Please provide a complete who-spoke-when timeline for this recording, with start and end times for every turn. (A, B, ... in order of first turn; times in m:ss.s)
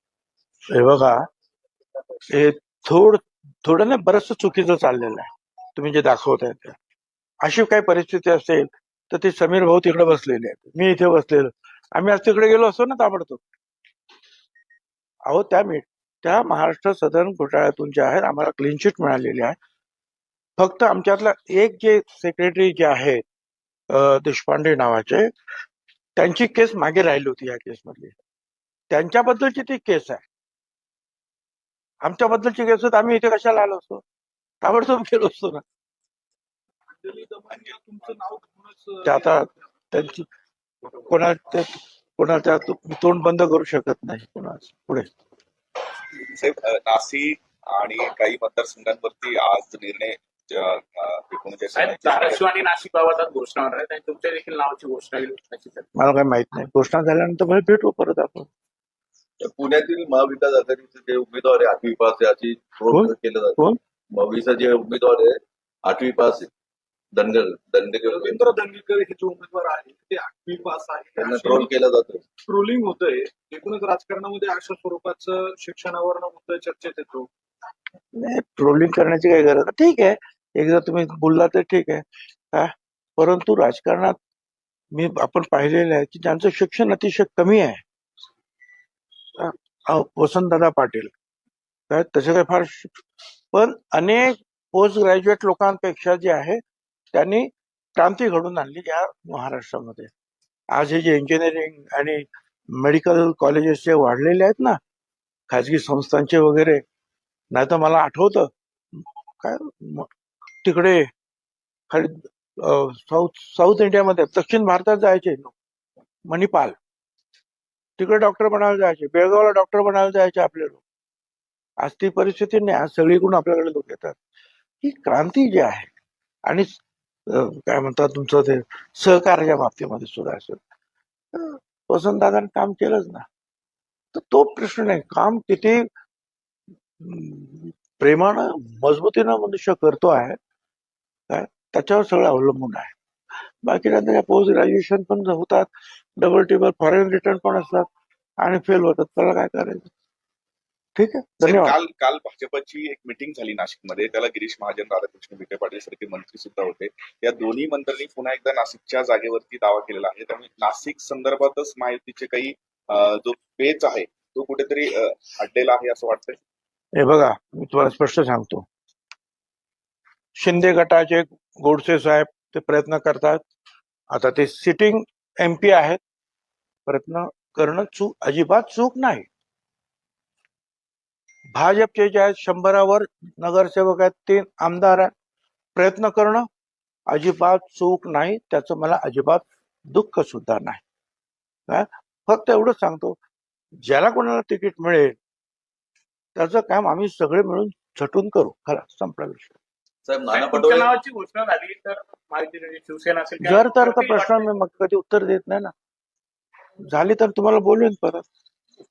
0:00.7-0:01.2 A
0:02.3-0:06.8 A
0:07.4-0:13.4 A
0:15.3-0:19.6 A
0:20.6-0:23.2 A
0:23.9-0:25.3 A
0:26.2-0:28.1 A
0:28.9-0:30.2 A
0:32.0-0:34.0 A
0:34.6-0:35.6 A
0:36.9-0:39.4 B
0:37.5-0:37.8 C
0:39.0-0:40.3 A
0:41.1-0:45.1 A
0:46.3-0:52.4 C
0:51.7-0:55.8 D
0:56.0-0:58.5 A
0:59.4-1:06.5 E
1:02.9-1:03.8 A
1:07.1-1:08.4 E
1:08.0-1:11.8 B
1:11.2-1:12.2 E
1:12.4-1:17.3 B
1:18.2-1:24.2 A
1:24.9-1:27.8 A
1:29.4-1:31.1 A
1:31.9-1:36.6 A
1:37.1-1:40.1 A
1:40.7-1:44.8 A
1:45.5-1:46.8 A
1:47.5-1:48.5 A
1:49.4-1:50.1 A
1:50.6-1:51.1 A
1:51.9-1:55.5 A
1:56.3-1:56.8 A
1:58.0-2:00.8 A
2:01.8-2:04.2 A
2:04.8-2:05.9 A
2:06.4-2:06.7 A
2:07.3-2:10.6 A
2:11.3-2:13.2 A
2:14.1-2:15.8 A
2:17.0-2:20.4 A
2:21.3-2:22.9 A
2:23.6-2:27.9 A
2:28.4-2:29.9 A
2:31.0-2:31.8 A
2:31.4-2:46.4 C
2:47.0-2:48.7 A
2:50.4-2:53.4 A
2:54.1-2:56.0 A
2:56.9-2:59.3 A
3:01.5-3:05.1 A
3:05.8-3:06.4 A
3:07.1-3:10.8 A
3:11.7-3:13.2 A
3:13.8-3:15.2 A
3:16.4-3:19.6 A
3:20.0-3:20.9 E
3:20.3-3:24.6 D
3:23.4-3:25.7 A
3:26.8-3:28.2 A